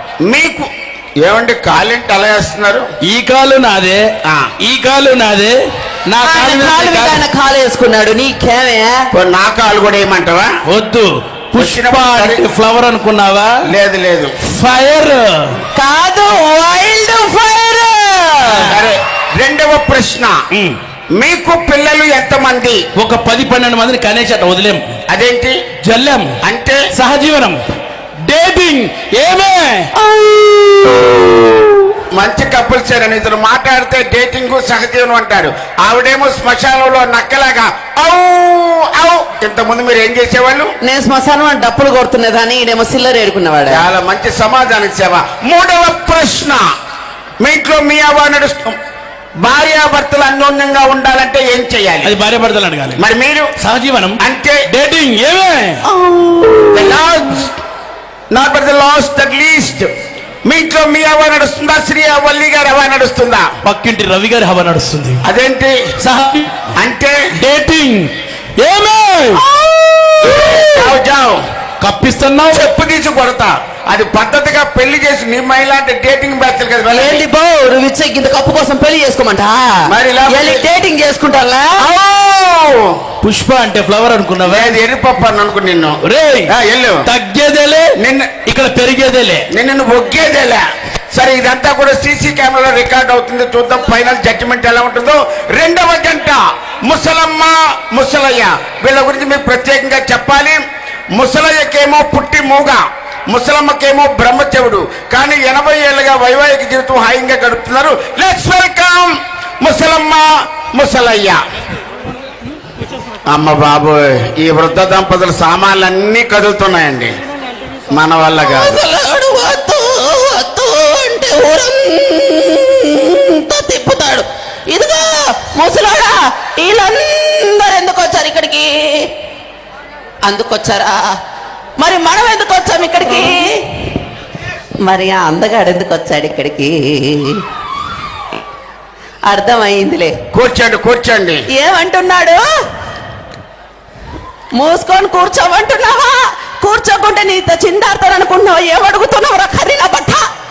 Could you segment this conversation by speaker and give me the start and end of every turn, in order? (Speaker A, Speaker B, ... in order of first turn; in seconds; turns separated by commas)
Speaker A: 0.2-2.9, Speaker B: 3.0-4.0, Speaker A: 4.2-4.5, Speaker B: 4.6-7.2, Speaker C: 6.2-9.1, Speaker A: 9.1-10.5, Speaker B: 10.7-13.5, Speaker A: 11.6-12.4, Speaker A: 13.7-14.3, Speaker B: 14.5-15.6, Speaker C: 15.8-18.6, Speaker B: 18.5-18.8, Speaker A: 18.6-20.4, Speaker A: 21.1-22.9, Speaker B: 23.0-24.8, Speaker A: 25.1-25.6, Speaker B: 25.8-26.3, Speaker A: 26.4-26.8, Speaker B: 26.9-27.6, Speaker B: 28.2-31.5, Speaker A: 32.1-40.7, Speaker C: 40.8-43.9, Speaker A: 43.7-46.7, Speaker A: 47.4-48.8, Speaker A: 49.4-52.1, Speaker B: 52.0-53.0, Speaker A: 53.0-53.5, Speaker B: 53.6-54.2, Speaker A: 54.2-54.6, Speaker B: 54.7-55.8, Speaker C: 55.9-57.0, Speaker A: 56.7-57.5, Speaker A: 58.3-59.9, Speaker A: 60.5-63.5, Speaker B: 63.6-65.2, Speaker A: 65.2-65.8, Speaker B: 66.0-66.6, Speaker A: 66.8-67.2, Speaker B: 67.3-69.4, Speaker C: 69.3-71.0, Speaker A: 70.6-71.4, Speaker B: 71.8-72.7, Speaker A: 72.5-77.2, Speaker C: 76.9-81.9, Speaker A: 79.9-80.6, Speaker A: 81.8-83.0, Speaker B: 83.2-84.8, Speaker A: 84.4-87.0, Speaker B: 86.0-86.5, Speaker B: 87.0-87.9, Speaker A: 88.0-88.3, Speaker B: 88.5-89.5, Speaker A: 89.5-100.6, Speaker A: 101.1-111.4, Speaker A: 113.3-117.1, Speaker A: 117.9-118.8, Speaker C: 118.4-129.1, Speaker C: 130.2-131.2, Speaker C: 131.8-133.6, Speaker C: 134.8-137.4, Speaker C: 139.3-140.1, Speaker A: 140.3-141.4, Speaker C: 141.5-142.4, Speaker C: 144.6-150.2